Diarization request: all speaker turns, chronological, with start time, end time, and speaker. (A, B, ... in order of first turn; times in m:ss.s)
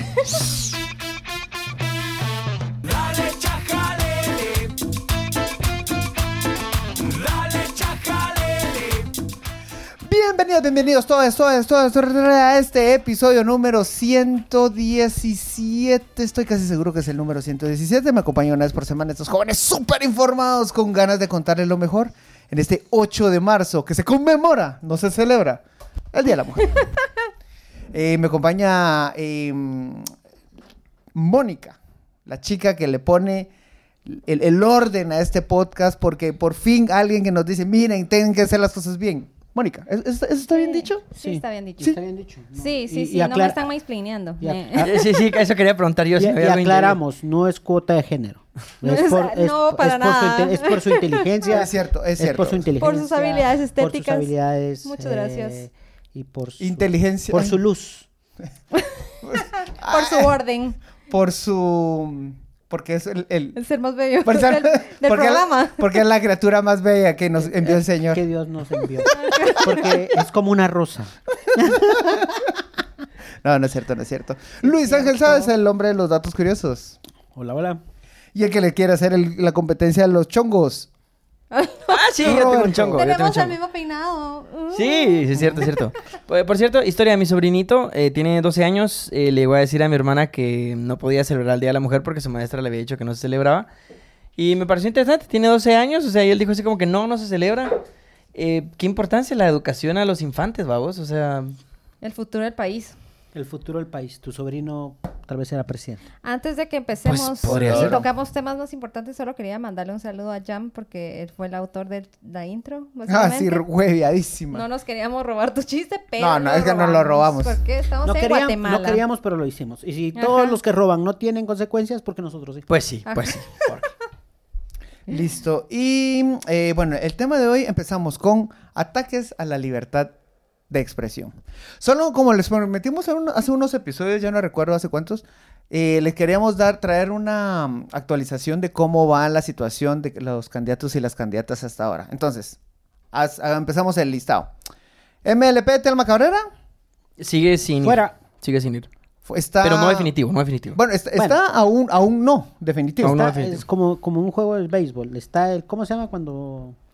0:03.2-0:04.6 A
0:07.6-0:09.0 A
0:10.0-0:25.6 A
0:26.1-0:26.9 A
0:27.9-0:30.1 A
0:31.2-0:33.5 A
0:34.1-0:41.0 A
0:40.5-0:42.0 B
0:41.2-0:43.6 C
0:42.6-0:45.0 B
0:44.4-0:44.9 C
0:44.8-0:47.0 D
0:46.2-0:58.1 C
0:48.8-0:51.3 B
0:51.5-0:52.7 A
0:52.8-0:54.3 B
0:54.8-0:55.6 B
0:56.6-0:57.6 A
0:58.7-1:00.8 B
0:59.2-1:00.4 A
1:01.1-1:03.6 A
1:03.6-1:06.0 B
1:04.2-1:08.2 A
1:07.4-1:11.1 C
1:09.0-1:10.0 B
1:09.1-1:09.6 A
1:11.7-1:12.0 C
1:11.9-1:12.5 A
1:13.4-1:17.0 A
1:14.7-1:15.5 B
1:17.4-1:17.8 C
1:18.4-1:20.9 A
1:21.5-1:25.7 B
1:21.9-1:23.6 D
1:22.2-1:23.0 A
1:24.7-1:33.7 D
1:34.4-1:37.7 D
1:38.3-1:41.6 D
1:42.0-1:43.0 B
1:43.4-1:46.0 C
1:46.2-1:53.6 B
1:47.0-1:48.0 D
1:47.4-1:48.0 A
1:53.1-1:54.7 A
1:54.5-1:59.0 B
1:56.2-1:57.6 A
1:58.0-2:02.6 C
2:00.2-2:00.6 B
2:02.7-2:03.9 D
2:03.1-2:03.8 B
2:05.1-2:10.1 A
2:10.7-2:22.6 A
2:23.1-2:24.5 A
2:25.2-2:26.4 A
2:27.2-2:28.9 D
2:27.8-2:28.2 C
2:29.3-2:30.1 A
2:29.6-2:30.8 D
2:30.7-2:33.2 A
2:33.0-2:33.6 D
2:33.0-2:36.8 C